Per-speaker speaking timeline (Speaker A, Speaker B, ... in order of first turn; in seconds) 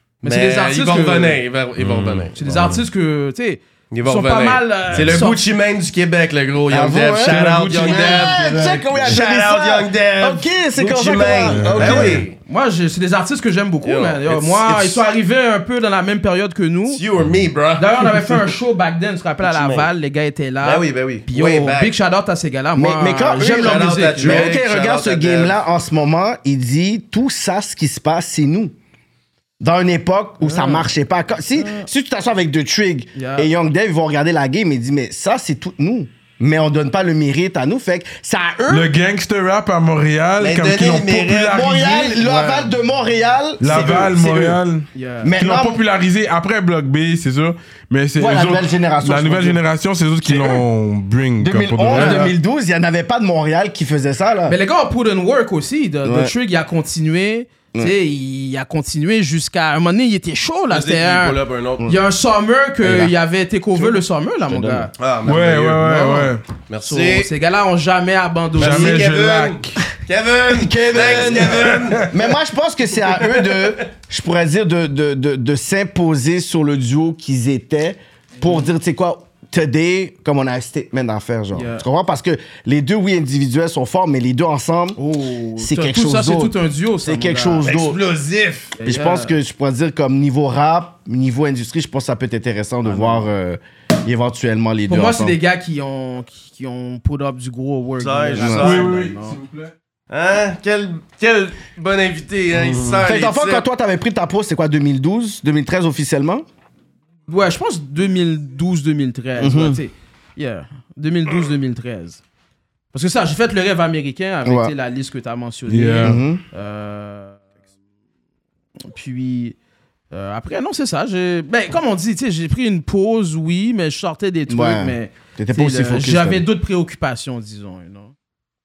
Speaker A: 0.2-2.4, 3.9-12.3, 13.8-15.0, 16.9-18.5, 19.4-19.9, 20.6-21.9, 23.4-25.6, 40.4-42.1, 60.7-61.9, 65.0-67.3, 68.6-72.1, 73.1-73.8, 87.6-88.7, 98.0-99.0, 100.1-103.7
Speaker B: 0.2-1.4, 2.3-5.4, 12.4-17.0, 17.8-24.6, 30.4-30.9, 31.5-31.9, 33.1-33.5, 44.9-45.3, 51.9-52.3, 54.5-64.9, 65.9-66.2, 66.8-69.1, 81.5-81.8, 85.0-87.7, 88.8-89.4, 92.8-93.3, 94.9-99.4, 107.3-112.2, 112.9-117.4, 118.9-119.5, 120.1-128.1
Speaker C: 1.8-2.8, 4.9-5.2, 7.2-8.4, 11.5-12.3, 38.7-42.6, 43.6-52.3, 65.2-66.4, 68.6-69.8, 71.5-72.2, 98.6-99.7, 102.5-103.0, 115.7-116.2
Speaker D: 6.7-12.3, 22.8-28.7, 29.6-38.9, 41.5-44.6, 45.2-45.8, 48.2-49.6, 50.2-50.6, 51.4-54.6, 56.0-56.3, 62.8-63.1, 63.7-64.9, 70.5-85.0, 85.6-88.0, 88.8-95.4, 98.4-98.7, 103.0-106.5, 109.4-109.8, 114.5-114.7, 116.0-116.4, 124.5-126.4